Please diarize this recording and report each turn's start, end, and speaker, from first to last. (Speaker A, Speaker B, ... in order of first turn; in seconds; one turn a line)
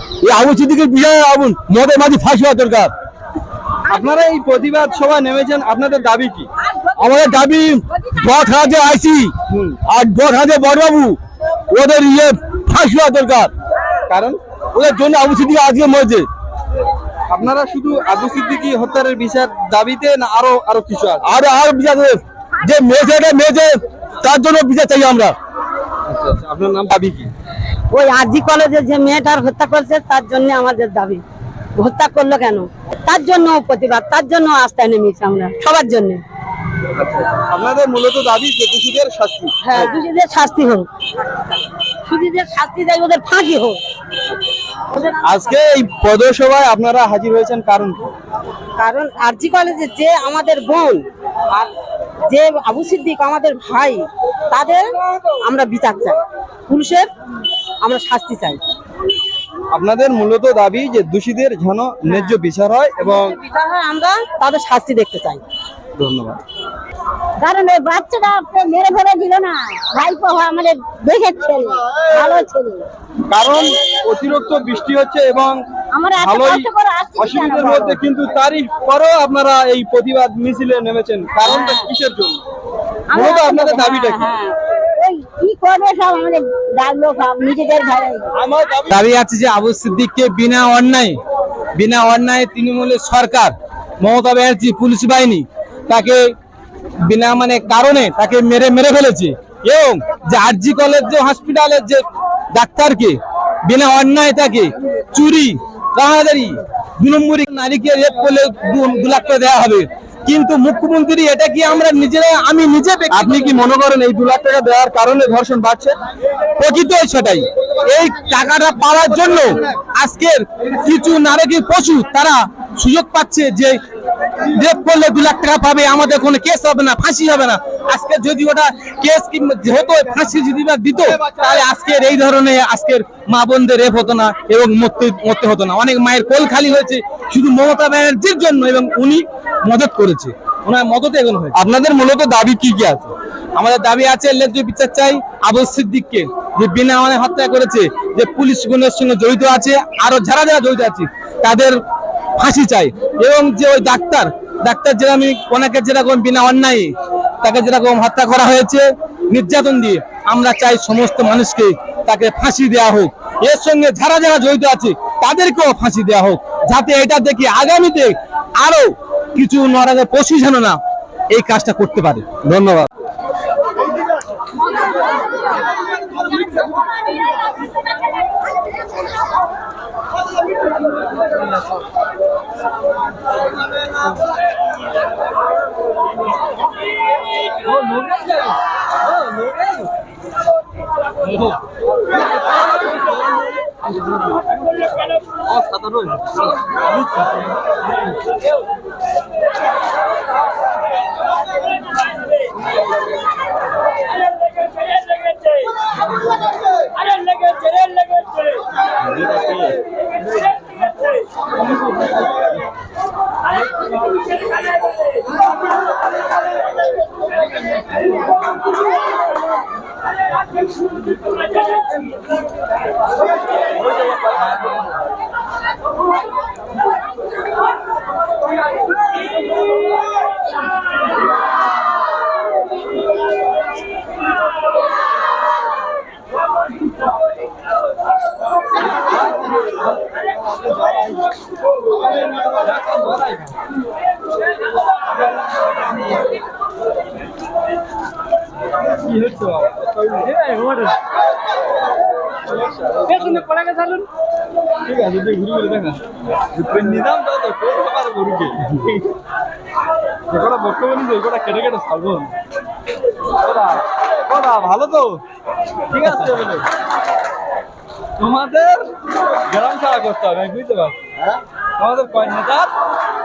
Speaker A: 0.2-2.9
Speaker B: 3.9-6.5
Speaker A: 7.0-9.3
Speaker B: 9.5-9.8
Speaker A: 9.8-11.2
Speaker A: 11.7-13.5
Speaker B: 14.1-14.4
Speaker A: 14.7-16.3
Speaker B: 17.3-21.3
Speaker A: 21.2-25.4
Speaker B: 26.1-27.3
Speaker C: 27.9-31.2
Speaker C: 31.8-36.2
Speaker B: 37.0-39.9
Speaker C: 39.6-40.9
Speaker C: 42.1-43.8
Speaker C: 44.9-45.5
Speaker B: 45.2-48.1
Speaker C: 48.8-51.7
Speaker C: 52.3-57.1
Speaker C: 57.8-58.6
Speaker B: 59.7-63.4
Speaker C: 63.0-65.4
Speaker B: 66.0-66.4
Speaker C: 67.4-70.5
Speaker D: 67.6-72.7
Speaker C: 71.9-72.8
Speaker B: 73.3-75.6
Speaker D: 76.0-77.8
Speaker B: 76.2-82.4
Speaker C: 81.4-81.8
Speaker B: 83.1-84.2
Speaker C: 83.1-84.5
Speaker C: 85.0-86.3
Speaker D: 85.0-88.3
Speaker C: 86.9-88.2
Speaker B: 88.3-88.9
Speaker E: 88.9-91.2
Speaker E: 91.8-96.3
Speaker E: 97.0-113.5
Speaker B: 113.1-116.0
Speaker E: 116.6-123.8
Speaker E: 124.5-141.6
Speaker B: 141.5-143.1
Speaker E: 143.6-151.8
Speaker E: 152.4-170.8
Speaker E: 171.3-172.3
Speaker B: 172.4-172.9
Speaker E: 187.9-188.2
Speaker B: 195.5-196.5
Speaker B: 240.5-241.2
Speaker B: 242.4-243.5
Speaker B: 249.0-250.5
Speaker B: 252.5-253.6
Speaker B: 254.8-256.0
Speaker B: 256.6-259.1
Speaker B: 260.3-262.3
Speaker B: 263.4-265.2
Speaker B: 265.9-266.7
Speaker B: 268.2-268.9
Speaker B: 269.5-270.9
Speaker B: 271.8-272.7